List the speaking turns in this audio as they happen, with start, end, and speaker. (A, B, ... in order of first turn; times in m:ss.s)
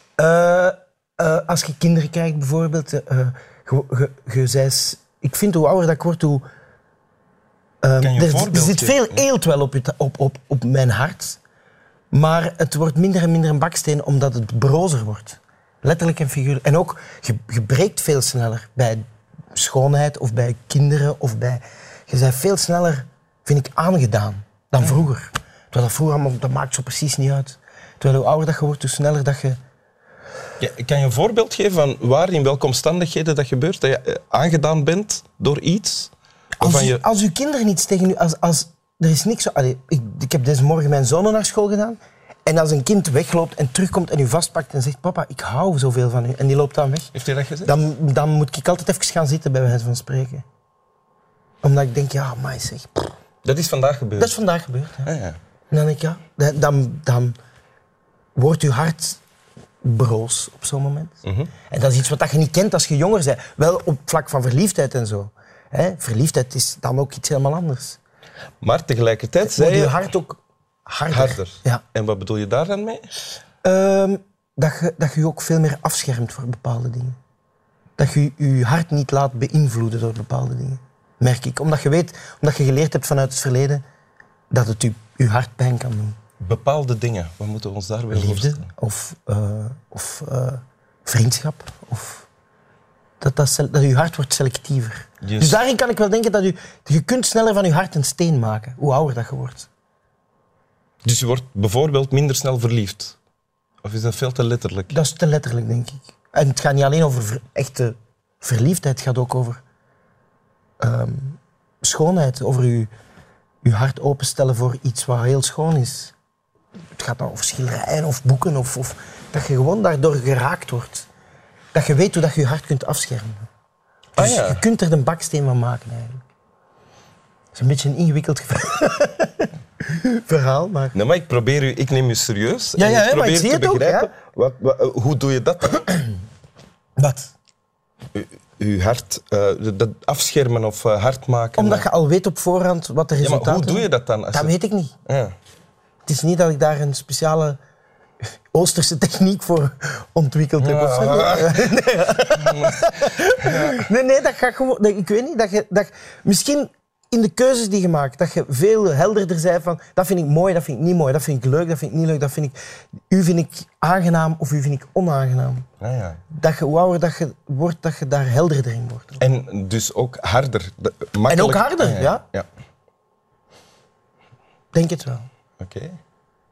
0:00.2-0:06.4 A
0:07.8-0:11.4 A
0:08.0-0:09.2 B
0:12.1-0:29.6 A
0:30.6-0:37.0 B
0:36.6-0:47.1 A
0:47.1-0:47.7 B
0:47.6-0:50.4 A
0:51.6-0:53.1 A
0:53.4-0:54.4 B
0:54.2-0:55.1 A
0:55.0-0:55.4 B
0:55.7-0:57.4 A
0:58.4-0:59.2 A
0:59.8-1:01.2 A
1:01.2-1:01.5 B
1:01.7-1:08.0 A
1:08.6-1:10.0 B
1:09.4-1:11.8 A
1:11.1-1:13.1 B
1:13.6-1:17.2 A
1:18.0-1:23.8 A
1:24.5-1:26.2 A
1:26.4-1:28.7 B
1:28.1-1:32.3 A
1:33.2-1:39.7 A
1:35.2-1:35.6 B
1:41.0-1:43.2 B
1:43.8-1:44.9 B
1:44.9-1:49.6 A
1:50.8-1:52.9 A
1:53.6-1:56.1 A
1:57.0-2:01.1 A
2:01.7-2:03.5 A
2:04.2-2:04.6 B
2:04.2-2:06.2 A
2:07.5-2:11.0 A
2:10.9-2:16.1 B
2:12.8-2:14.1 A
2:17.0-2:17.3 A
2:18.1-2:21.8 B
2:21.6-2:24.9 A
2:23.2-2:24.5 B
2:25.0-2:25.3 B
2:26.0-2:27.6 A
2:28.5-2:42.6 A
2:30.6-2:31.7 B
2:32.3-2:33.8 B
2:43.1-2:45.6 A
2:45.8-2:46.2 B
2:46.3-2:49.2 A
2:49.2-2:52.4 B
2:51.3-2:52.2 A
2:54.7-2:55.3 A
2:55.6-2:56.0 B